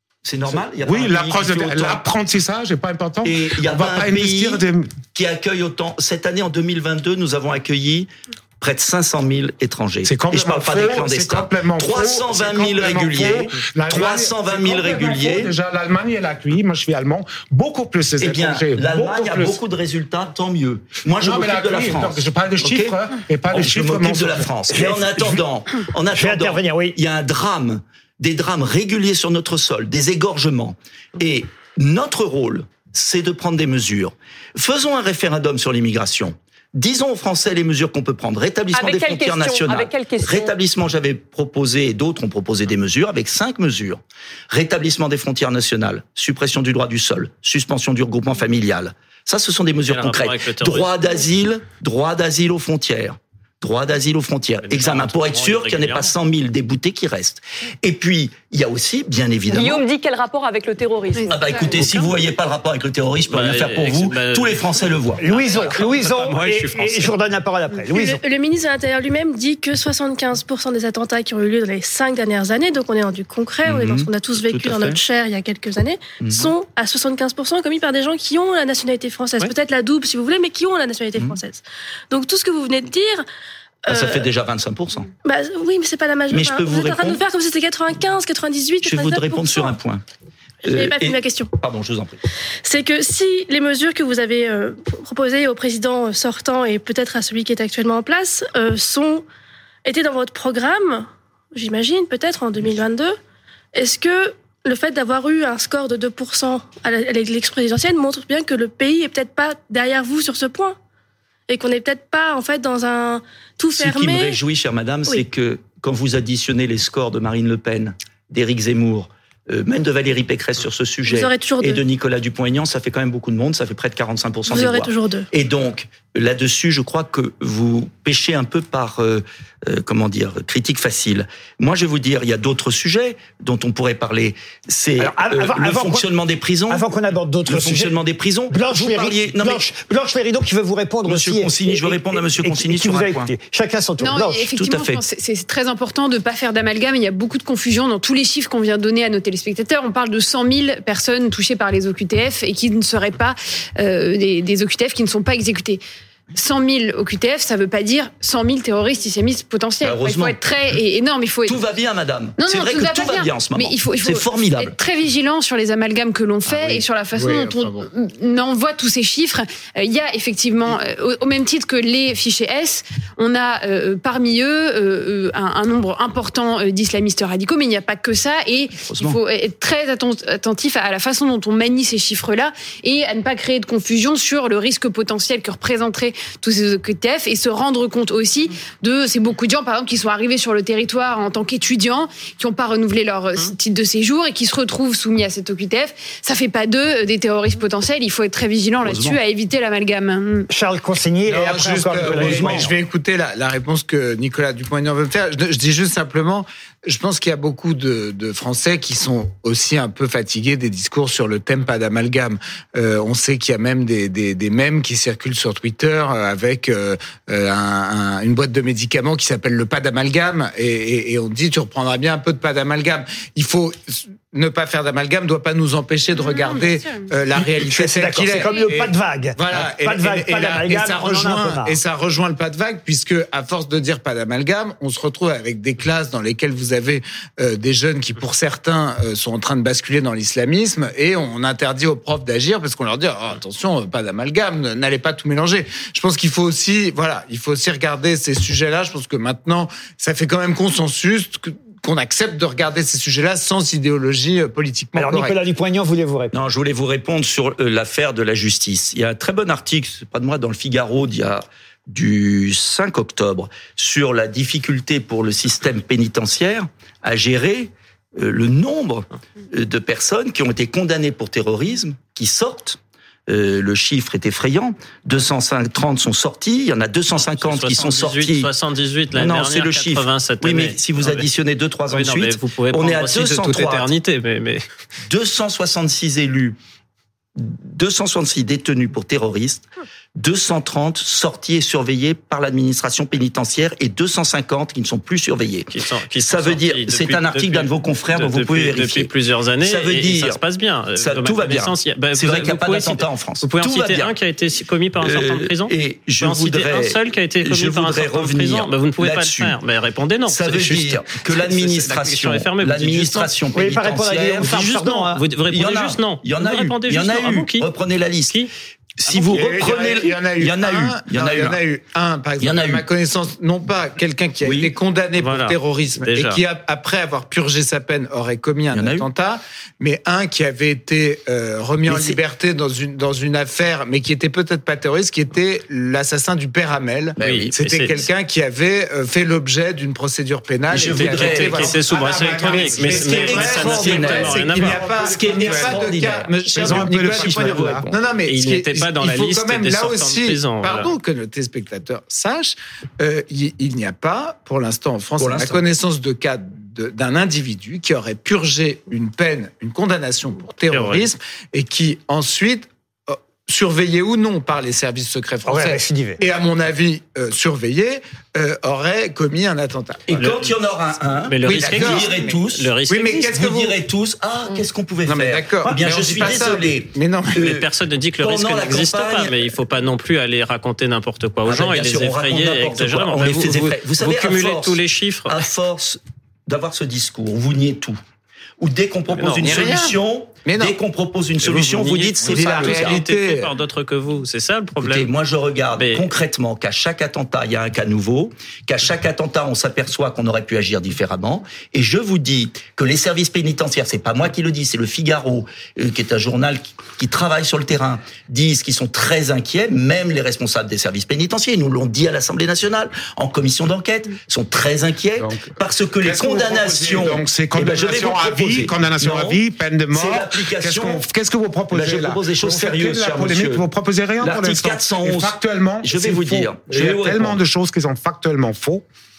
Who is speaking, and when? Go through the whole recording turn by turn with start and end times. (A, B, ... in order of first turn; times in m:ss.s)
0:00.2-0:02.0 A
0:00.8-0:05.0 B
0:03.2-0:15.5 A
0:10.0-0:19.6 B
0:18.2-0:23.0 A
0:21.2-0:25.1 B
0:23.5-0:59.8 A
0:24.8-0:25.3 C
0:26.1-0:27.0 C
0:38.7-0:40.5 D
0:49.9-0:50.9 E
0:54.6-0:56.1 E
0:59.5-1:01.7 D
1:01.3-1:05.8 A
1:01.7-1:02.0 E
1:03.3-1:07.1 E
1:05.2-1:08.2 C
1:07.9-1:23.2 F
1:13.6-1:15.0 A
1:16.2-1:16.5 A
1:23.8-1:24.3 F
1:23.9-1:25.1 A
1:25.2-1:29.8 F
1:26.3-1:27.2 A
1:28.8-1:30.0 A
1:30.6-1:31.5 F
1:30.6-1:32.2 A
1:32.6-1:39.2 F
1:39.8-1:43.2 F
1:43.7-1:50.8 F
1:51.5-1:54.4 F
1:53.7-2:16.8 A
2:01.1-2:01.8 F
2:04.5-2:05.3 F
2:15.0-2:16.1 C
2:16.7-2:17.9 C
2:17.4-2:19.6 A
2:18.5-2:24.5 C
2:21.0-2:23.3 A
2:24.0-2:35.8 G
2:24.5-2:25.0 A
2:36.3-2:41.6 G
2:39.8-2:40.4 A
2:41.4-2:44.7 A
2:42.4-3:20.5 G
2:46.5-2:47.9 H
2:58.9-2:59.2 A
3:18.8-3:19.2 A
3:20.5-3:22.7 C
3:21.2-4:15.4 H
3:22.0-3:22.7 A
3:46.2-3:46.9 G
3:47.4-3:51.8 C
4:14.9-4:16.3 C
4:16.3-4:38.5 A
4:37.1-4:41.2 E
4:39.1-4:43.9 A
4:41.9-4:44.6 E
4:45.1-4:46.6 A
4:47.4-4:55.7 A
4:55.7-5:13.3 E
4:56.2-4:59.1 A
4:59.6-5:00.4 A
5:01.0-5:04.1 A
5:05.0-5:09.6 A
5:10.2-5:14.6 A
5:13.5-5:15.2 C
5:14.4-5:17.7 E
5:15.5-5:18.4 A
5:19.0-5:21.6 A
5:19.1-5:19.5 E
5:19.2-6:10.4 H
5:22.4-5:22.8 A
5:24.4-5:24.7 A
5:25.2-5:26.4 E
5:28.7-5:29.0 A
5:31.8-5:32.2 A
5:37.2-5:37.5 A
5:37.2-5:38.0 E
5:40.7-5:44.4 A
5:40.8-5:44.9 E
5:44.5-5:47.9 B
5:45.2-5:47.9 A
5:48.3-5:50.9 E
5:55.2-5:55.6 A
6:00.7-6:01.1 E
6:05.4-6:06.2 C
6:10.0-6:17.6 A
6:10.2-6:10.5 E
6:11.3-6:13.3 E
6:11.4-6:13.8 H
6:15.0-6:17.5 H
6:17.4-6:25.4 E
6:18.2-6:19.5 A
6:21.4-6:28.0 A
6:28.6-6:33.0 A
6:29.1-6:29.8 E
6:29.4-6:30.8 H
6:31.4-6:35.1 E
6:32.2-6:33.5 H
6:34.8-6:59.4 A
6:35.8-6:36.1 E
6:55.2-7:08.8 B
6:59.9-7:01.0 A
7:01.7-7:03.6 A
7:04.2-7:07.4 A